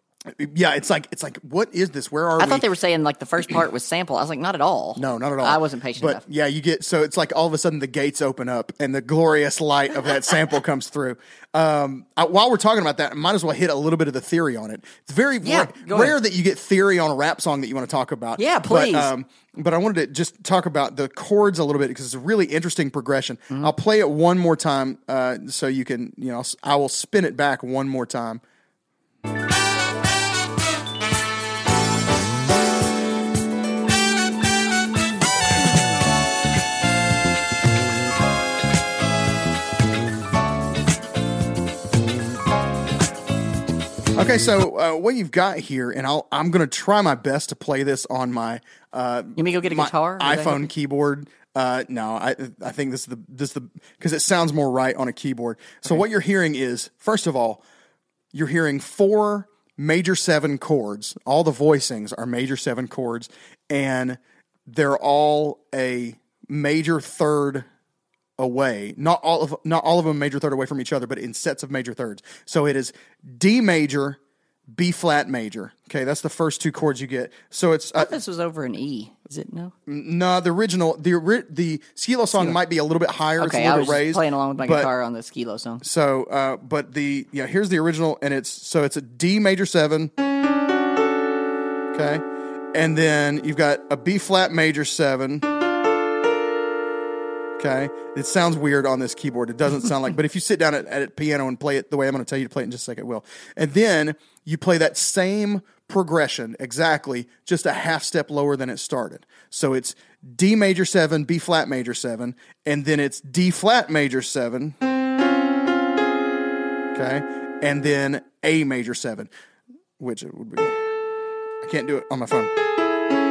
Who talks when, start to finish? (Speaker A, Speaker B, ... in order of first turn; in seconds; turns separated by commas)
Speaker A: 0.3-2.6, Speaker B: 2.4-6.2, Speaker A: 5.0-28.4, Speaker B: 15.4-16.2, Speaker B: 18.4-19.1, Speaker A: 44.1-57.6, Speaker B: 49.4-50.7, Speaker A: 58.3-67.7, Speaker A: 68.4-74.2, Speaker A: 74.7-78.2, Speaker B: 78.0-79.7, Speaker A: 79.9-84.9, Speaker B: 83.4-85.8, Speaker A: 85.8-90.1, Speaker A: 91.9-95.5, Speaker A: 97.6-114.8, Speaker A: 116.9-119.3, Speaker A: 120.0-121.0, Speaker A: 121.6-122.5